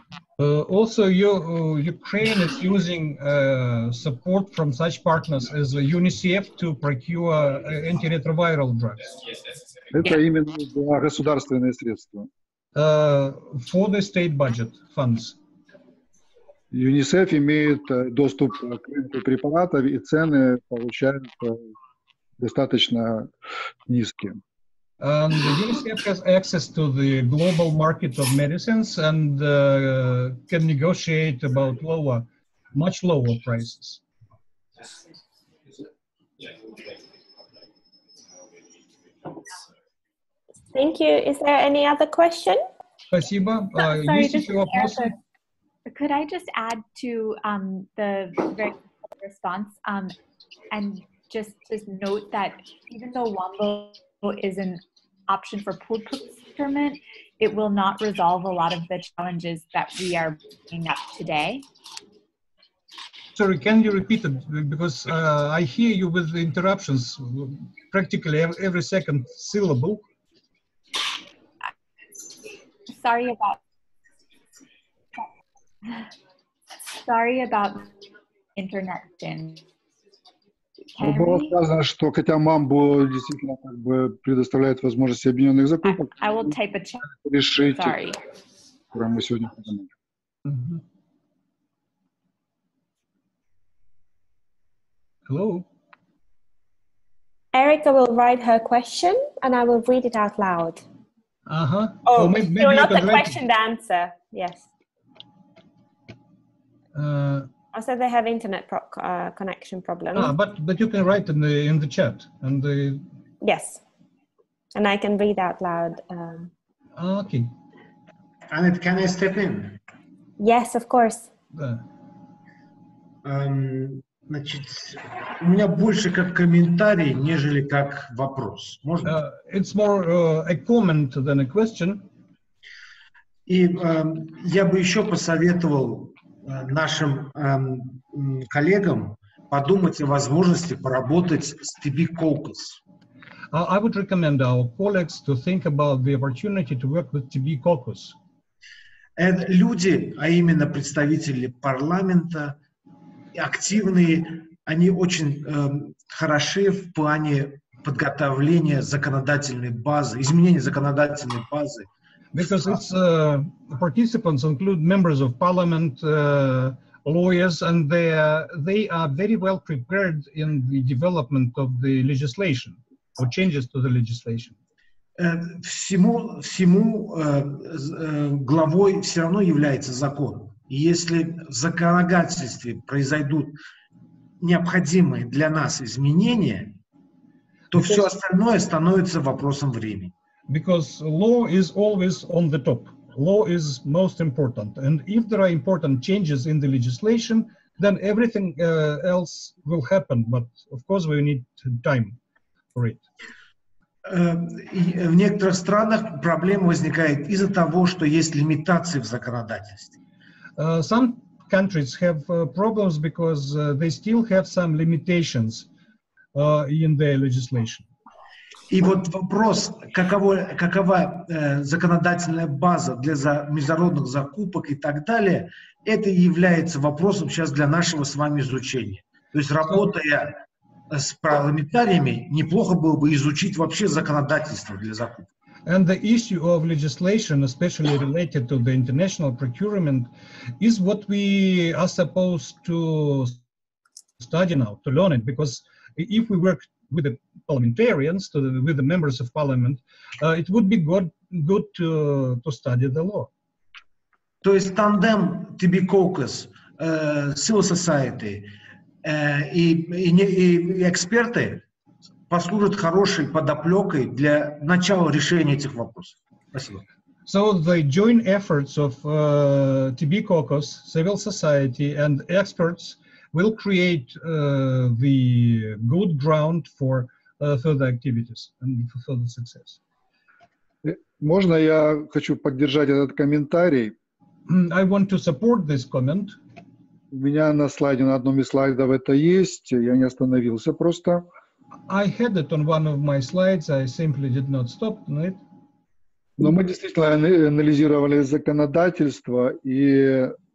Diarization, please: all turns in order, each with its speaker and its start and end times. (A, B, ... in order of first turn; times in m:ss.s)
0:00.4-0:09.1 A
0:09.9-0:12.3 B
0:12.8-0:15.4 A
0:16.7-0:21.7 B
0:22.4-0:23.3 B
0:23.9-0:24.4 B
0:25.0-0:34.0 A
0:40.7-0:42.7 C
0:43.1-0:45.2 A
0:44.0-0:45.0 C
0:45.9-0:50.2 D
0:50.7-1:01.6 D
1:03.3-1:10.0 A
1:12.9-1:13.6 D
1:16.9-1:18.0 D
1:18.6-1:19.6 D
1:21.0-1:21.6 D
1:21.0-1:26.5 B
1:25.8-1:28.2 D
1:27.1-1:28.0 B
1:28.9-1:29.9 B
1:30.4-1:30.8 A
1:35.3-1:35.6 A
1:37.5-1:40.8 C
1:41.5-1:43.4 A
1:42.0-1:44.7 C
1:47.0-1:47.5 A
1:47.7-1:50.3 C
1:50.1-1:53.0 A
1:53.4-1:53.8 C
1:54.7-1:56.5 C
1:57.0-1:57.5 A
1:58.5-1:59.8 E
2:00.4-2:01.3 C
2:01.6-2:01.8 A
2:03.2-2:09.2 E
2:09.0-2:12.0 A
2:13.5-2:22.8 E
2:23.5-2:28.2 A
2:29.2-2:32.6 E
2:33.4-2:41.9 E
2:42.3-2:54.6 A
2:55.2-3:03.6 E
3:04.4-3:06.8 E
3:07.7-3:10.1 E
3:07.7-3:08.2 A
3:10.5-3:22.2 A
3:22.8-3:23.0 A
3:24.1-3:29.9 E
3:30.6-3:35.7 A
3:36.3-3:37.9 A
3:38.7-3:50.4 E
3:49.7-3:49.9 A
3:50.9-3:55.3 E
3:55.7-4:03.4 A
4:04.2-4:13.3 A
4:14.4-4:18.5 E
4:19.0-4:21.6 E
4:22.3-4:26.8 E
4:27.3-4:39.8 A
4:40.8-4:44.0 B
4:44.5-4:46.4 A
4:47.1-4:51.3 B
4:51.9-4:55.4 A
4:56.4-5:00.4 B